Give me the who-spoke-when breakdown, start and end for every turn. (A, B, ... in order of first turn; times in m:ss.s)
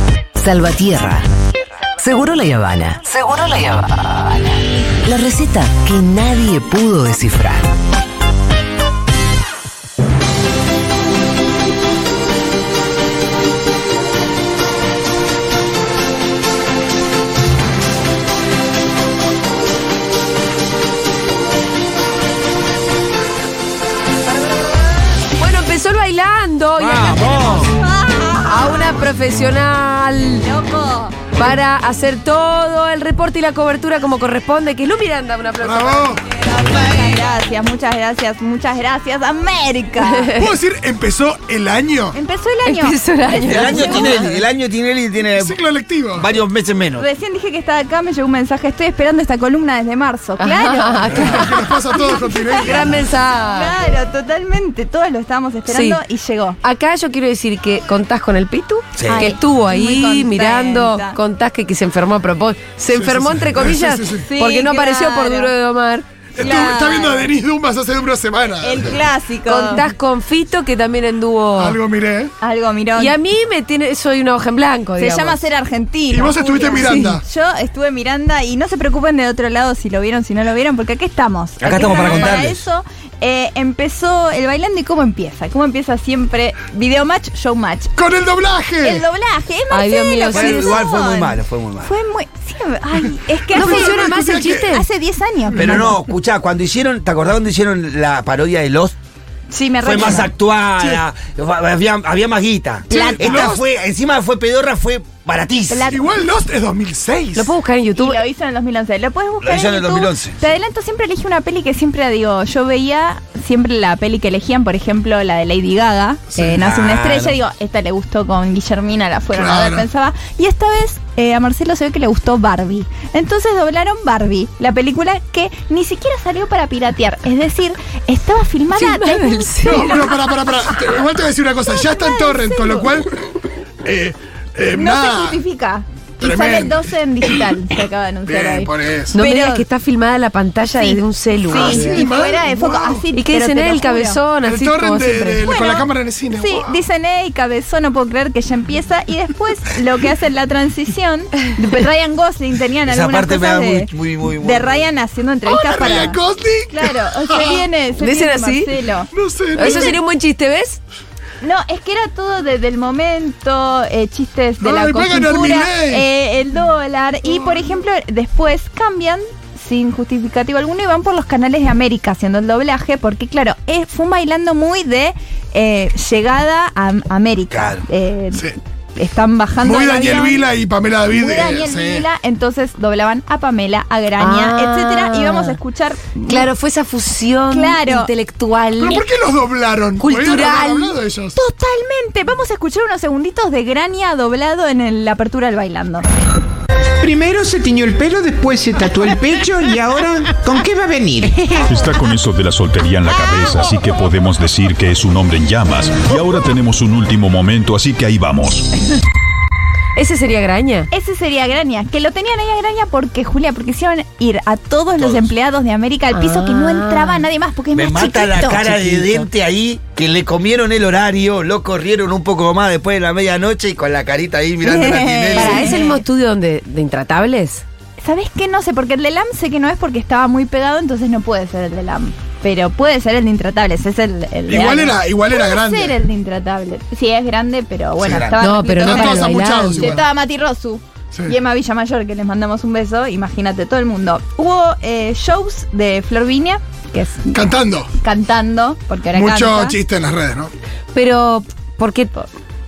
0:00.4-0:01.3 A
0:02.0-0:07.7 A
0:25.4-0:27.4 B
0:27.4-0:28.8 C
0:28.4-0:30.5 B
0:30.4-0:31.2 C
0:31.3-0:36.2 B
0:35.6-0:36.2 D
0:36.2-0:40.3 C
0:40.0-0:40.5 B
0:40.4-0:42.2 D
0:42.1-0:44.2 C
0:42.6-0:44.4 B
0:43.4-0:45.6 E
0:45.4-0:46.3 D
0:46.1-0:47.1 E
0:47.0-0:52.8 C
0:50.4-0:53.7 B
0:51.1-0:53.1 D
0:53.5-0:56.6 C
0:55.7-0:56.0 B
0:56.6-1:06.1 B
0:59.0-0:59.3 E
0:59.1-1:01.2 C
1:02.9-1:04.3 D
1:04.2-1:05.5 C
1:06.3-1:09.0 D
1:06.4-1:07.3 C
1:08.6-1:09.8 C
1:09.4-1:11.8 B
1:11.6-1:12.3 D
1:12.4-1:13.2 C
1:13.0-1:15.4 B
1:15.0-1:27.9 C
1:16.1-1:17.2 D
1:16.8-1:17.1 B
1:21.6-1:22.6 E
1:21.7-1:22.0 B
1:21.9-1:22.4 D
1:28.0-1:29.0 D
1:28.8-1:35.9 C
1:29.7-1:30.8 B
1:30.3-1:31.9 E
1:33.5-1:34.7 D
1:33.5-1:34.8 B
1:35.5-1:38.9 E
1:39.5-1:40.3 C
1:39.8-1:45.9 E
1:42.9-1:43.5 C
1:42.9-1:43.6 D
1:45.7-1:46.0 C
1:45.9-1:47.5 D
1:47.3-1:48.2 B
1:48.0-2:10.3 C
1:49.4-1:50.4 E
1:56.4-1:57.4 E
1:59.3-1:59.8 D
2:08.7-2:10.0 B
2:09.6-2:13.1 D
2:11.7-2:12.9 C
2:13.8-2:15.4 D
2:14.7-2:19.6 C
2:16.2-2:16.8 D
2:18.3-2:19.2 D
2:19.1-2:22.0 B
2:20.7-2:24.2 C
2:21.5-2:23.0 D
2:23.1-2:25.5 B
2:24.4-2:26.8 D
2:25.4-2:36.2 C
2:32.9-2:34.9 E
2:35.4-2:37.6 D
2:36.7-2:40.0 C
2:38.0-2:38.7 B
2:39.1-2:40.0 D
2:39.5-2:40.8 B
2:41.4-3:00.4 C
2:44.6-2:46.0 D
2:57.5-2:57.8 E
2:59.6-3:02.0 D
3:01.1-3:06.5 C
3:04.2-3:05.6 B
3:06.2-3:09.0 B
3:07.5-3:08.1 C
3:08.8-3:11.4 D
3:10.0-3:11.0 B
3:11.4-3:16.0 C
3:17.0-3:21.7 F
3:21.6-3:28.7 G
3:30.0-3:30.9 B
3:30.9-3:38.7 C
3:35.0-3:35.3 E
3:36.1-3:37.3 B
3:37.7-3:45.8 E
3:38.5-3:39.2 B
3:44.6-3:46.0 C
3:45.3-3:47.6 B
3:48.0-4:07.4 C
3:54.5-3:56.0 D
3:58.0-3:58.4 E
3:58.4-4:00.0 B
3:58.8-4:00.0 D
4:07.3-4:07.9 D
4:07.9-4:09.8 C
4:09.1-4:10.5 D
4:10.9-4:12.3 B